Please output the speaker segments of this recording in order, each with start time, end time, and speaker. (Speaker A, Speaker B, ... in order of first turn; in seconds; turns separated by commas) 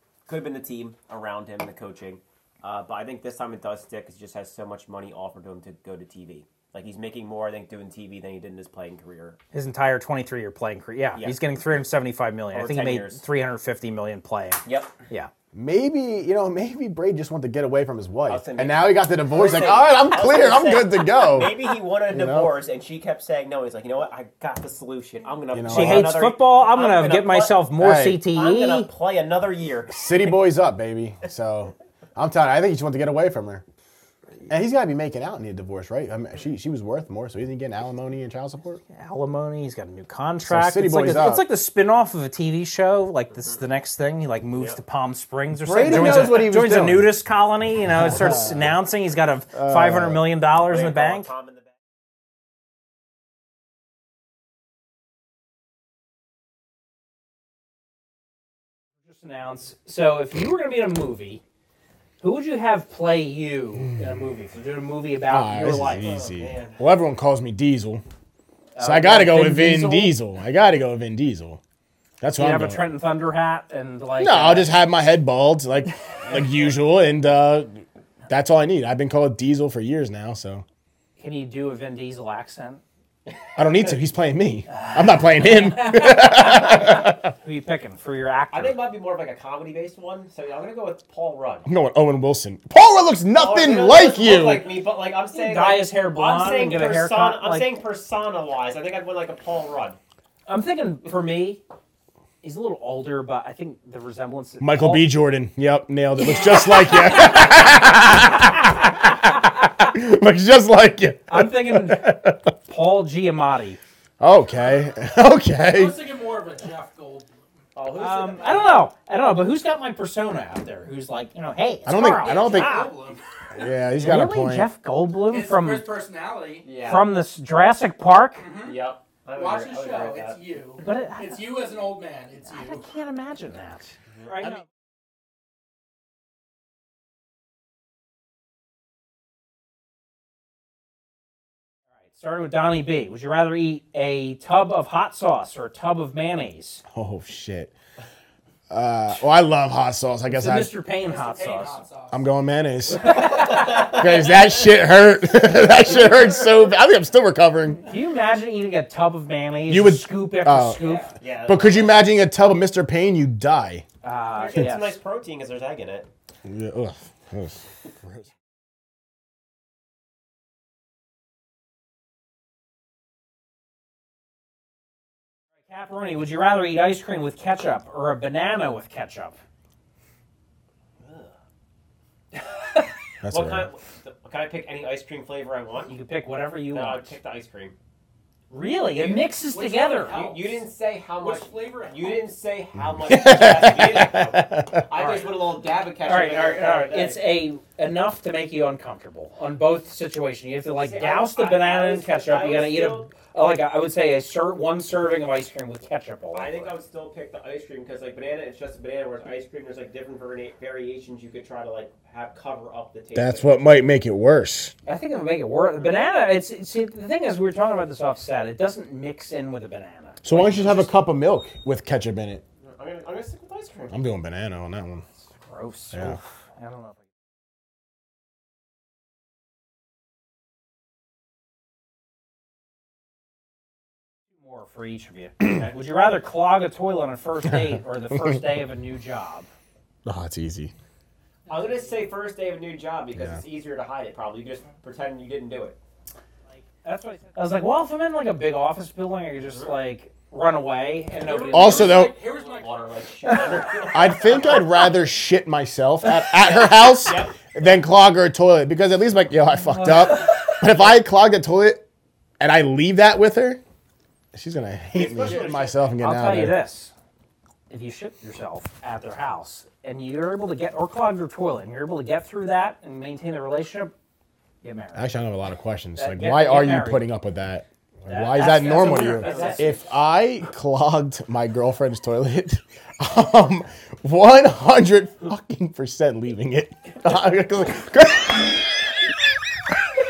Speaker A: 0.3-9.4, Speaker B: 9.5-15.3, Speaker A: 12.5-13.2, Speaker A: 14.6-14.9, Speaker C: 15.5-22.5, Speaker A: 18.3-27.6, Speaker C: 25.5-26.2, Speaker B: 25.7-28.9, Speaker C: 27.8-28.2, Speaker A: 28.3-30.1, Speaker C: 29.9-33.6, Speaker C: 34.5-38.8, Speaker B: 38.9-51.3, Speaker C: 40.4-41.4, Speaker C: 45.6-47.1, Speaker C: 48.0-48.7, Speaker C: 49.5-50.2, Speaker A: 50.7-51.7, Speaker B: 59.0-61.4, Speaker B: 62.2-66.1, Speaker C: 65.3-68.0, Speaker A: 66.0-66.8, Speaker B: 68.8-70.2, Speaker C: 68.8-71.6, Speaker C: 72.2-72.8, Speaker B: 72.3-74.7, Speaker C: 74.2-80.6, Speaker B: 81.2-82.8, Speaker C: 83.5-87.3, Speaker B: 84.7-88.7, Speaker A: 88.5-91.7, Speaker C: 91.7-94.7, Speaker A: 93.3-100.0, Speaker B: 95.3-97.7, Speaker B: 100.5-101.6, Speaker B: 102.4-105.1, Speaker C: 104.6-112.5, Speaker B: 106.2-108.2, Speaker B: 111.3-113.8, Speaker C: 114.2-116.0, Speaker D: 115.7-117.3, Speaker A: 117.8-118.8, Speaker B: 118.0-122.9, Speaker C: 121.8-122.9, Speaker D: 122.0-123.2, Speaker C: 123.5-124.7, Speaker B: 124.0-125.8, Speaker D: 125.3-126.7, Speaker A: 126.6-127.1, Speaker B: 126.8-128.4, Speaker D: 128.4-128.8, Speaker A: 128.6-130.4, Speaker D: 129.3-132.9, Speaker B: 130.8-131.5, Speaker B: 132.4-134.6, Speaker A: 134.1-134.6, Speaker B: 142.1-146.8, Speaker C: 146.9-147.7, Speaker C: 148.7-150.7, Speaker B: 150.3-151.8, Speaker D: 151.0-152.2, Speaker C: 152.1-157.8, Speaker B: 153.0-153.9, Speaker A: 153.4-154.5, Speaker A: 155.8-156.6, Speaker B: 157.8-161.1, Speaker C: 159.7-160.8, Speaker D: 160.7-161.1, Speaker A: 161.2-161.8, Speaker C: 161.4-163.8, Speaker B: 164.0-165.0, Speaker A: 164.3-166.1, Speaker C: 166.4-168.3, Speaker B: 175.7-179.4, Speaker A: 181.0-181.3, Speaker B: 182.4-182.9, Speaker C: 183.2-183.7, Speaker A: 183.3-185.9, Speaker B: 185.9-187.2, Speaker A: 186.7-187.7, Speaker B: 188.5-190.2, Speaker A: 188.9-189.3, Speaker D: 189.4-192.3, Speaker A: 190.1-197.2, Speaker C: 192.9-194.8, Speaker B: 194.9-195.3, Speaker B: 196.0-206.7, Speaker A: 200.8-203.1, Speaker A: 206.3-213.6, Speaker C: 213.1-214.7, Speaker B: 214.8-220.9, Speaker C: 220.2-222.4, Speaker A: 222.6-223.9, Speaker C: 223.9-225.1, Speaker B: 225.2-227.0, Speaker C: 225.9-226.2, Speaker B: 234.4-239.5, Speaker C: 237.5-238.4, Speaker C: 240.0-240.7, Speaker A: 241.5-245.8, Speaker B: 246.5-252.0, Speaker A: 249.4-249.7, Speaker D: 251.2-253.9, Speaker C: 251.5-252.1, Speaker A: 252.0-254.8, Speaker C: 253.9-261.8, Speaker A: 256.9-257.3, Speaker B: 259.6-260.5, Speaker C: 262.4-263.6, Speaker C: 264.3-266.6, Speaker A: 264.9-266.3, Speaker B: 266.0-266.9, Speaker B: 267.7-273.9, Speaker B: 274.6-275.1, Speaker C: 274.9-289.0, Speaker B: 276.0-277.0, Speaker B: 278.1-279.7, Speaker A: 278.6-279.8